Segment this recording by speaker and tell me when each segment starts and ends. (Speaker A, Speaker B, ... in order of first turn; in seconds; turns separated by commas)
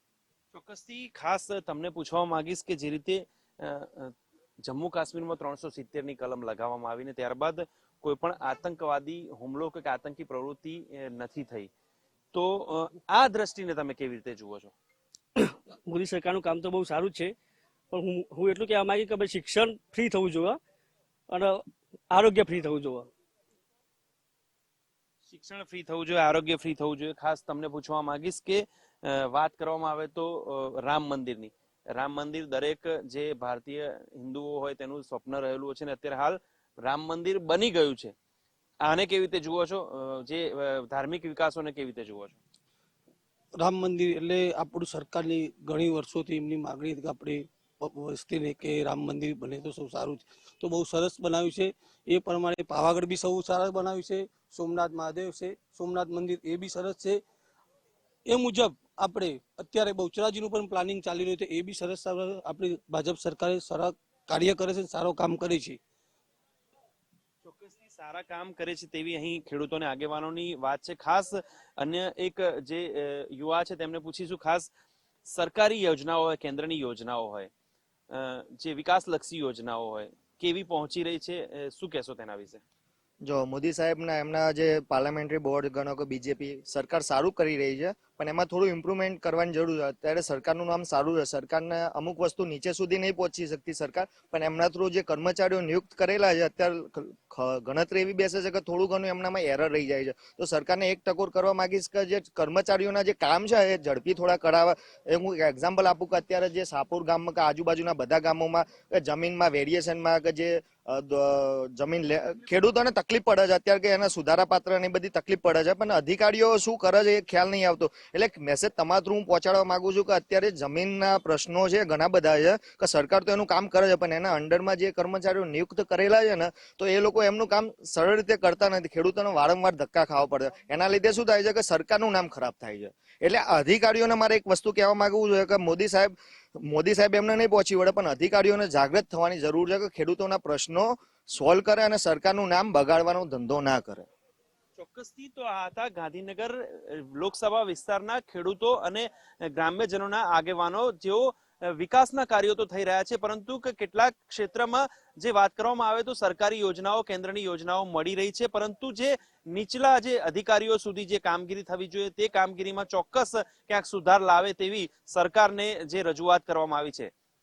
Speaker A: 0.5-4.1, Speaker A: 4.6-11.7, Speaker A: 12.3-14.7, Speaker B: 15.4-17.3, Speaker B: 17.9-20.6, Speaker B: 21.3-23.1, Speaker A: 25.3-38.1, Speaker A: 38.8-42.4, Speaker C: 43.6-57.2, Speaker C: 58.2-65.8, Speaker A: 67.4-74.7, Speaker A: 75.2-77.5, Speaker A: 78.1-82.6, Speaker D: 83.2-144.1, Speaker A: 144.8-167.1